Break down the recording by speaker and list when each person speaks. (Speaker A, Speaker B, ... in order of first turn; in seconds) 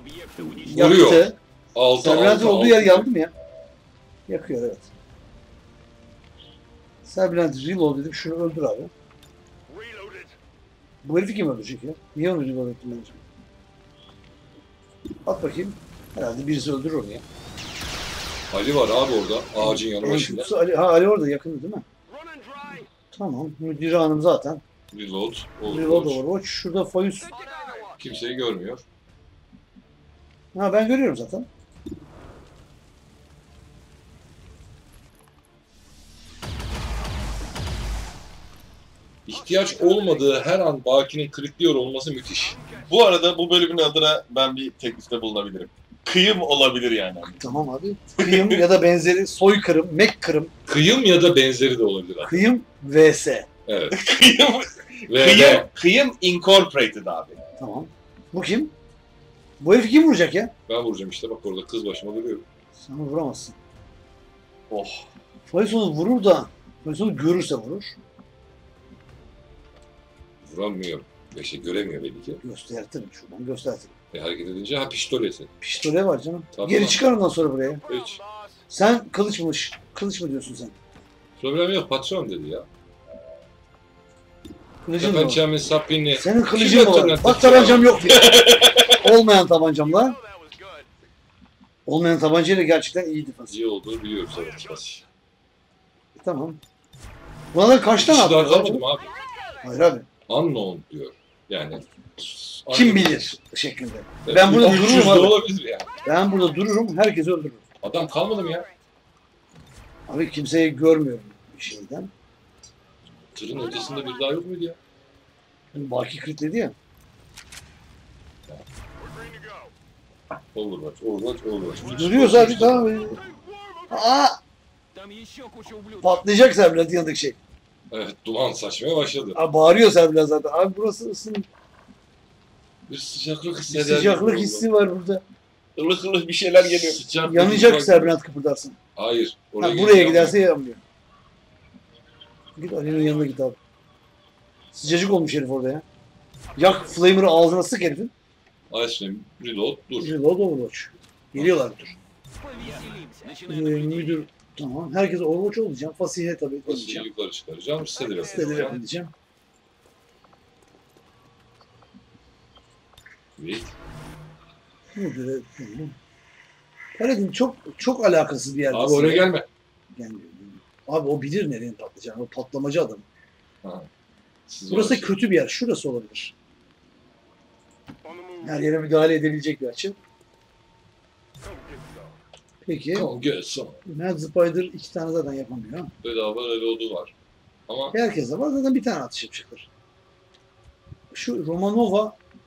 Speaker A: 0.6-1.4, 2.0-3.3, 4.3-4.9, 7.0-8.9, 11.0-13.2, 15.2-17.2, 19.6-21.8, 23.1-24.6, 25.6-27.4, 30.5-31.5, 47.4-50.5, 52.2-53.5, 57.6-58.7, 59.6-60.5, 62.8-63.6, 65.5-68.0, 72.4-73.9, 75.6-77.8, 78.7-80.7, 84.8-85.4, 86.2-88.4, 88.9-90.2, 91.8-93.5, 96.2-96.6, 97.5-98.8, 99.6-100.1, 102.7-105.4, 106.0-107.6, 110.1-112.1, 115.7-116.7, 121.8-123.2, 123.9-124.4, 126.0-127.3, 129.3-131.5, 133.7-135.2, 137.2-138.8, 139.6-140.8, 142.6-143.6, 144.8-145.8, 146.6-148.1, 150.0-151.9, 153.4-157.1, 158.2-159.1, 164.9-165.9, 167.0-169.3, 169.9-173.0, 174.7-176.3, 178.4-180.0, 182.6-183.1, 183.8-185.9, 187.9-189.7, 191.1-192.2
Speaker B: 0.6-3.1, 18.5-20.5, 24.9-26.2, 28.0-28.8, 39.2-42.6, 50.7-52.5, 53.7-54.0, 55.1-55.7, 60.7-62.4, 64.7-65.0, 70.4-72.4, 74.1-75.5, 76.5-77.0, 77.9-78.2, 81.4-82.7, 85.0-88.4, 93.5-95.0, 98.0-99.2, 100.3-103.3, 104.2-105.9, 107.8-108.7, 113.3-114.8, 120.5-122.9, 127.9-129.4, 132.9-134.6, 136.6-138.2, 138.9-140.4, 148.7-150.1, 151.3-151.6, 156.7-158.8, 163.4-163.7, 168.7-169.5, 173.6-173.9, 174.5-175.2, 182.9-183.8, 186.0-187.1, 187.7-187.9
Speaker C: 42.8-47.4, 48.2-48.6, 53.9-57.4, 88.1-89.0, 135.8-137.0